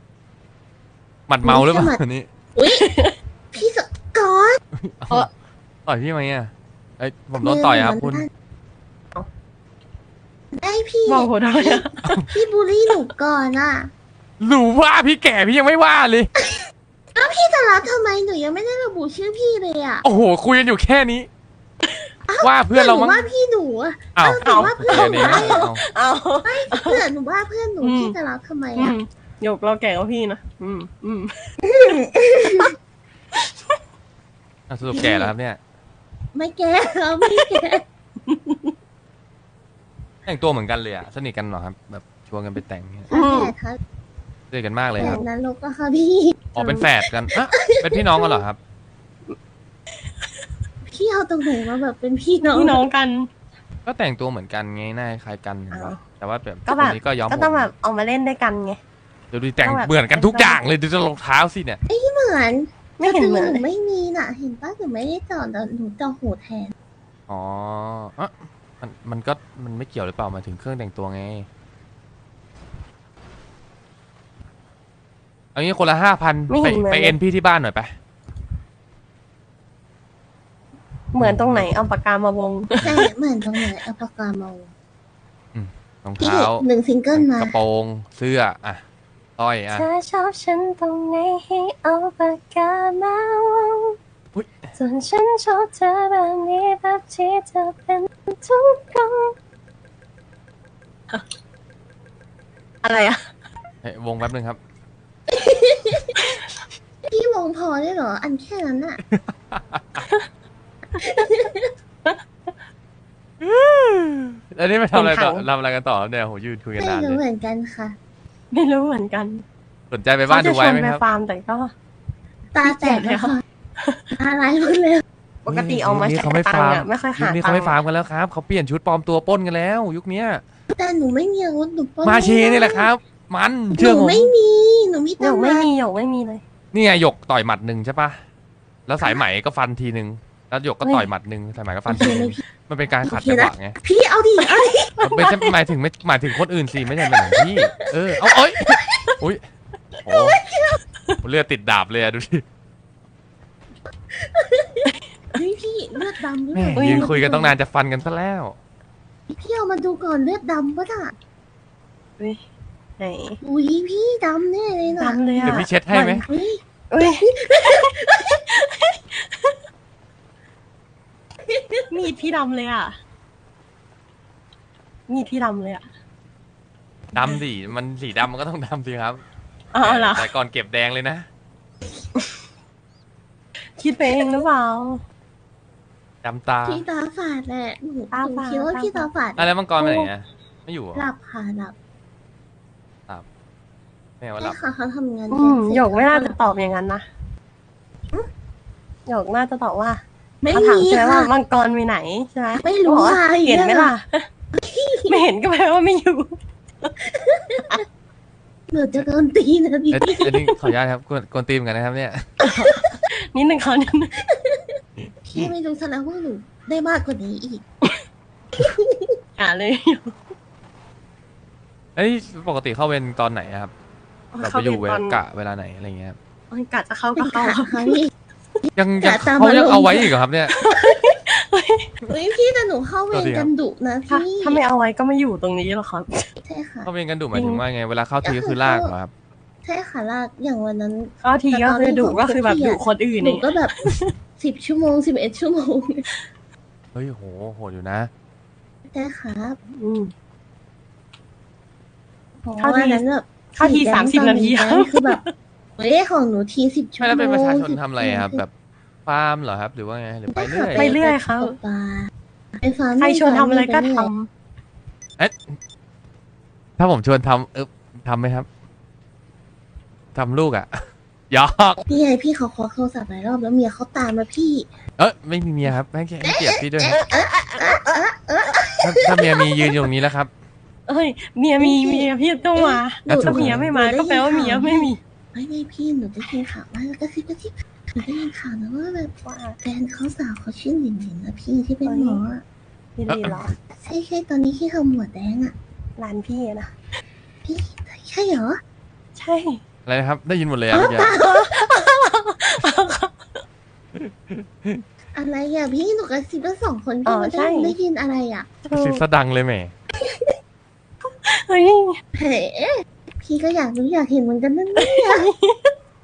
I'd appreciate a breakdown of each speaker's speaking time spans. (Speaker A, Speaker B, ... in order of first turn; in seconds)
Speaker A: 1.3-2.3, 4.8-5.3, 5.9-8.2, 14.4-16.3, 20.0-21.3, 22.4-23.3, 24.1-25.8, 34.7-35.6, 40.2-43.1, 44.5-45.2, 46.5-48.6, 53.9-57.7, 59.3-61.8, 67.3-71.5, 75.5-77.9, 81.2-81.7, 85.5-88.8, 89.4-89.9, 94.3-94.7, 103.8-104.6, 109.1-110.0, 113.4-117.2, 119.9-121.0, 125.5-130.4, 132.0-134.3, 136.7-138.2, 138.9-143.8, 145.0-149.4, 150.0-150.4, 151.2-152.4, 156.5-158.6, 165.4-166.2, 177.1-179.2, 179.8-181.3, 186.2-186.8, 189.4-191.1, 194.2-194.6, 209.9-212.4, 215.0-215.5, 222.0-223.7, 224.4-226.2, 228.8-230.5, 233.1-233.5, 236.8-239.1, 246.9-248.1, 257.0-258.5, 259.1-260.9, 265.2-265.5, 266.8-268.5, 270.1-271.8, 275.0-277.0, 278.8-280.3, 283.1-283.7, 293.1-293.4, 299.9-301.1, 303.9-304.8, 308.7-309.7
Speaker B: 1.4-2.0, 2.5-2.9, 3.5-4.6, 7.4-8.3, 10.5-13.9, 16.4-16.6, 17.1-20.0, 22.2-25.6, 26.4-29.0, 31.7-32.7, 34.9-35.3, 36.3-37.8, 43.1-43.8, 45.0-46.4, 47.5-48.4, 50.9-52.9, 61.9-66.7, 82.8-84.7, 86.2-87.5, 105.3-106.1, 107.1-109.0, 111.0-111.7, 116.8-118.0, 122.5-123.4, 124.2-125.0, 130.7-132.9, 133.7-135.7, 141.9-142.4, 143.0-145.5, 147.2-147.7, 148.7-149.0, 150.3-150.8, 154.1-157.5, 159.3-161.1, 163.4-165.7, 166.2-168.4, 171.5-171.9, 186.6-189.5, 190.9-191.8, 194.4-196.4, 200.4-201.3, 202.6-204.0, 204.6-205.2, 207.1-207.8, 208.7-210.4, 214.2-217.6, 218.6-219.2, 227.1-228.1, 229.0-230.2, 232.1-234.6, 236.4-236.9, 238.2-238.9, 239.6-243.7, 244.4-246.1, 248.9-249.6, 252.4-255.2, 255.8-258.4, 260.3-264.1, 271.9-274.7, 276.2-279.7, 281.6-292.4, 293.7-295.6, 297.4-298.6, 300.7-301.5, 305.1-308.5, 312.1-315.3
Speaker C: 2.8-3.1, 11.1-12.2, 24.4-27.0, 27.8-28.1, 28.8-31.5, 37.3-37.7, 38.3-38.6, 43.1-43.5, 45.0-45.2, 46.6-46.9, 52.4-53.3, 55.7-56.0, 56.6-58.8, 59.6-60.6, 63.0-63.6, 76.5-77.2, 81.1-83.0, 89.7-94.0, 94.8-99.3, 102.8-103.3, 114.9-115.5, 118.5-119.4, 120.3-121.7, 122.6-124.1, 125.4-127.8, 135.2-136.4, 140.8-141.1, 144.4-145.3, 156.8-157.1, 163.0-163.4, 165.0-166.2, 166.9-169.5, 171.9-173.0, 175.1-175.9, 179.7-180.3, 183.8-185.0, 188.1-189.1, 189.8-190.1, 195.3-197.1, 199.1-204.3, 205.1-206.9, 210.2-210.6, 212.4-214.1, 219.4-220.2, 224.3-225.2, 226.5-228.0, 230.5-231.9, 234.1-236.3, 237.3-237.6, 241.2-244.1, 249.8-250.1, 252.6-255.3, 260.7-261.6, 263.0-264.3, 276.9-278.0, 280.9-285.0, 289.2-289.6, 291.9-292.2, 292.9-293.6, 296.0-296.7, 299.1-299.6, 300.8-303.4, 307.1-307.8, 308.6-309.0, 311.1-312.0, 314.8-315.7